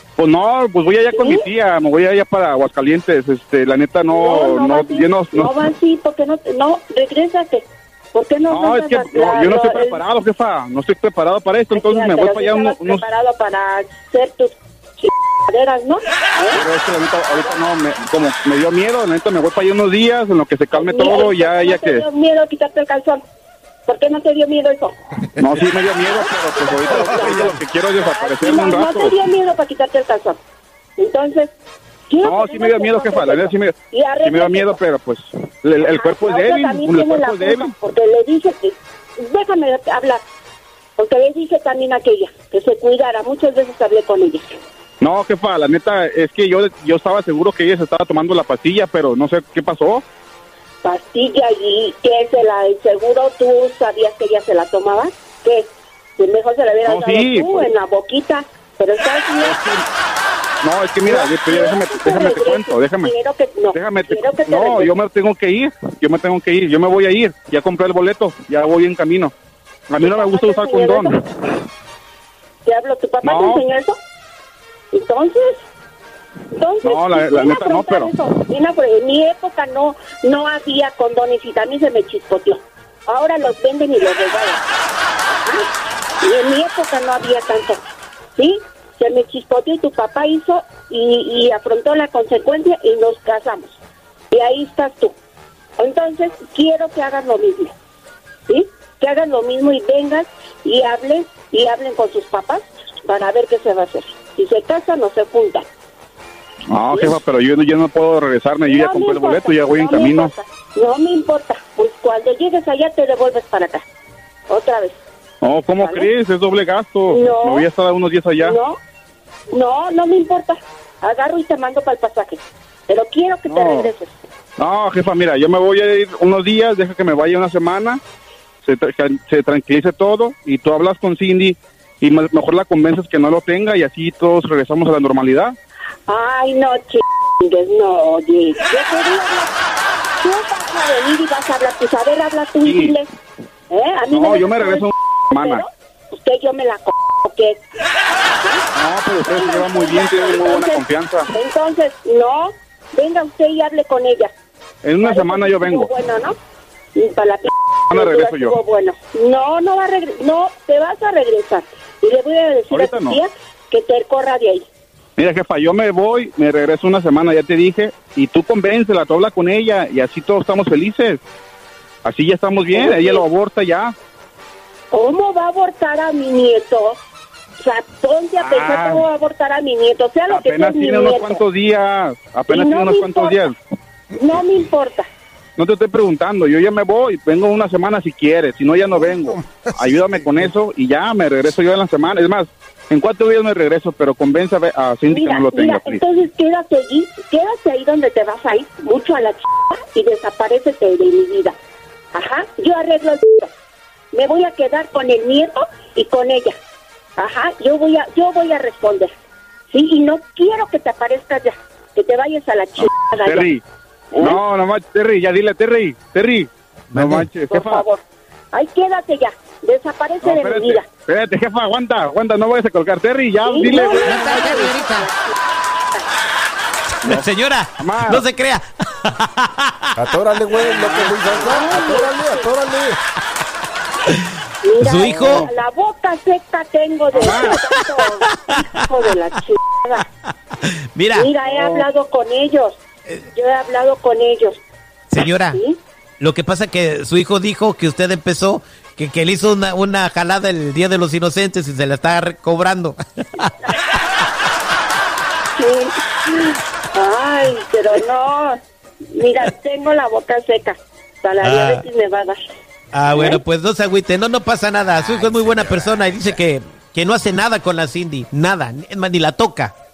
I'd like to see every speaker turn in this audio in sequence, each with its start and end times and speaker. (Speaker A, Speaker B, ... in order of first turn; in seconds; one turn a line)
Speaker A: 0.2-5.5
Speaker B: 1.1-1.5
Speaker B: 4.1-10.0
Speaker A: 8.5-13.0
Speaker B: 11.7-16.6
Speaker A: 16.5-22.0
Speaker B: 20.7-23.2
Speaker B: 23.9-25.0
Speaker A: 25.4-29.2
Speaker B: 26.0-30.4
Speaker B: 31.0-31.5
Speaker B: 32.1-34.8
Speaker A: 32.2-37.7
Speaker B: 35.9-40.2
Speaker B: 41.0-44.5
Speaker A: 45.0-50.0
Speaker B: 50.8-59.6
Speaker A: 56.9-57.7
Speaker A: 59.4-59.8
Speaker A: 60.6-63.1
Speaker B: 61.0-64.9
Speaker A: 63.7-69.3
Speaker A: 69.9-71.1
Speaker B: 70.0-71.2
Speaker B: 72.6-74.0
Speaker A: 73.2-73.6
Speaker B: 74.9-75.6
Speaker B: 76.5-84.6
Speaker A: 76.8-78.1
Speaker B: 85.3-85.7
Speaker B: 86.2-87.8
Speaker B: 88.3-93.8
Speaker B: 94.3-95.2
Speaker B: 95.8-97.7
Speaker B: 98.5-105.7
Speaker A: 106.7-110.3
Speaker B: 106.9-107.2
Speaker B: 108.7-113.8
Speaker B: 114.5-115.0
Speaker A: 115.4-118.6
Speaker B: 115.8-116.1
Speaker B: 117.1-117.7
Speaker B: 118.4-118.8
Speaker B: 119.5-124.1
Speaker A: 123.5-123.9
Speaker A: 124.6-128.0
Speaker A: 128.6-135.6
Speaker B: 136.1-139.5
Speaker B: 140.2-143.1
Speaker A: 142.6-142.9
Speaker B: 143.7-147.6
Speaker A: 144.1-145.6
Speaker B: 148.3-148.6
Speaker A: 148.7-151.3
Speaker B: 149.2-154.3
Speaker A: 154.8-155.9
Speaker B: 155.0-156.3
Speaker B: 156.9-164.7
Speaker A: 157.9-158.6
Speaker A: 162.7-163.2
Speaker A: 165.2-171.2
Speaker A: 172.0-173.9
Speaker B: 172.7-173.2
Speaker B: 174.9-177.0
Speaker B: 177.6-181.4
Speaker A: 178.4-179.0
Speaker A: 180.3-183.5
Speaker B: 182.5-183.5
Speaker B: 184.1-185.1
Speaker A: 185.6-196.0
Speaker C: 188.9-190.5
Speaker B: 195.1-201.6
Speaker B: 202.1-203.5
Speaker B: 204.1-206.6
Speaker B: 207.2-209.1
Speaker B: 209.7-213.5
Speaker A: 213.2-213.6
Speaker B: 214.1-214.4
Speaker A: 214.2-217.8
Speaker D: 216.9-217.3
Speaker B: 217.5-220.8
Speaker A: 220.2-224.3
Speaker B: 223.4-225.4
Speaker D: 223.6-225.1
Speaker D: 227.0-229.8
Speaker A: 227.8-228.2
Speaker C: 229.9-233.0
Speaker A: 230.6-231.5
Speaker B: 231.4-232.5
Speaker B: 234.6-240.0
Speaker D: 234.8-235.5
Speaker A: 235.1-235.5
Speaker A: 237.1-237.6
Speaker D: 237.3-238.7
Speaker D: 240.6-241.3
Speaker B: 241.1-242.8
Speaker B: 243.3-244.6
Speaker D: 245.1-245.6
Speaker B: 245.5-245.8
Speaker D: 246.2-253.7
Speaker B: 255.5-262.4
Speaker D: 261.4-261.9
Speaker D: 262.9-269.7
Speaker B: 263.1-263.4
Speaker C: 265.2-266.3